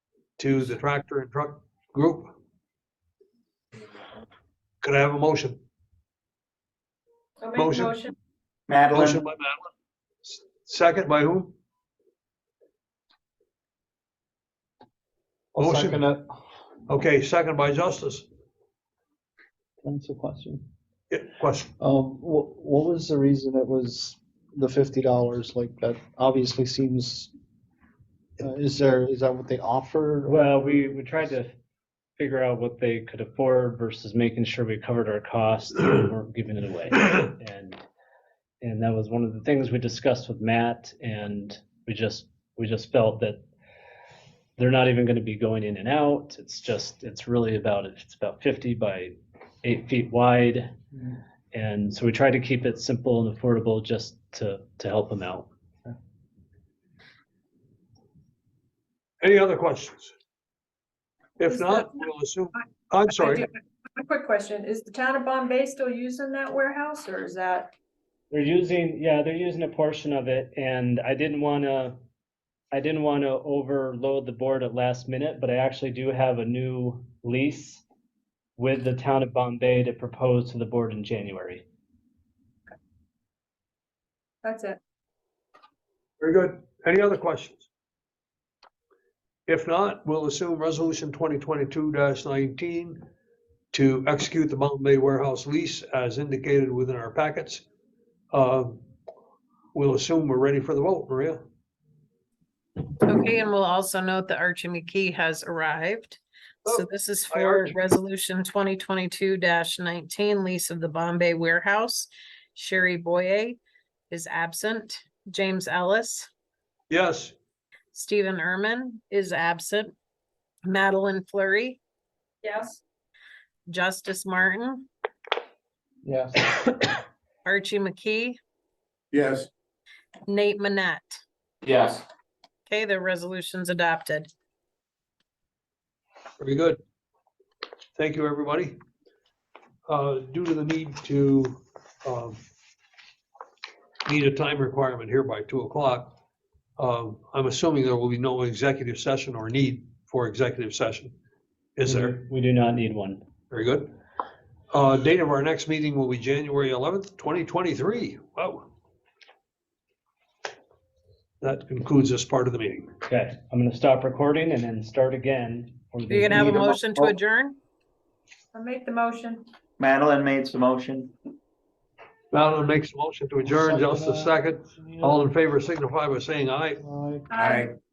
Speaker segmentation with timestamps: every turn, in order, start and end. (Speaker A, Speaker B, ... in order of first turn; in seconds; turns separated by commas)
Speaker A: 0.4-2.3, Speaker A: 4.8-5.6, Speaker B: 7.4-8.1, Speaker A: 7.5-8.0, Speaker C: 8.7-9.2, Speaker A: 8.9-9.7, Speaker A: 10.3-11.5, Speaker A: 15.6-16.1, Speaker D: 15.6-16.3, Speaker A: 16.9-18.3, Speaker D: 19.8-20.6, Speaker A: 21.1-21.7, Speaker D: 21.8-27.3, Speaker D: 28.4-30.5, Speaker E: 30.3-31.5, Speaker E: 32.2-37.8, Speaker E: 38.6-43.4, Speaker E: 44.6-50.8, Speaker E: 51.5-55.5, Speaker A: 59.2-60.1, Speaker A: 61.4-63.5, Speaker B: 61.5-62.0, Speaker B: 63.2-67.7, Speaker E: 68.3-72.0, Speaker E: 72.7-77.8, Speaker E: 78.6-81.6, Speaker B: 84.4-84.8, Speaker A: 86.2-87.7, Speaker A: 89.5-93.0, Speaker A: 93.7-97.7, Speaker A: 98.3-98.8, Speaker A: 99.7-101.4, Speaker F: 103.0-113.6, Speaker A: 106.7-107.7, Speaker F: 114.1-116.3, Speaker A: 116.9-117.3, Speaker F: 117.9-119.9, Speaker F: 120.7-121.8, Speaker B: 122.4-122.8, Speaker F: 123.7-124.9, Speaker D: 126.0-126.6, Speaker F: 127.5-128.4, Speaker F: 130.3-131.2, Speaker C: 131.7-132.0, Speaker F: 132.7-134.3, Speaker A: 136.4-136.8, Speaker A: 138.0-138.8, Speaker A: 139.9-142.4, Speaker A: 144.1-146.2, Speaker A: 146.8-151.1, Speaker A: 151.8-152.2, Speaker E: 151.8-153.2, Speaker A: 153.5-153.9, Speaker A: 154.7-158.7, Speaker A: 161.4-162.9, Speaker E: 163.1-166.6, Speaker F: 166.1-167.6, Speaker D: 166.3-167.2, Speaker B: 168.5-169.5, Speaker C: 169.8-171.1, Speaker A: 172.3-176.8, Speaker D: 173.4-175.2, Speaker D: 176.8-177.3, Speaker B: 177.3-177.7, Speaker C: 177.4-177.7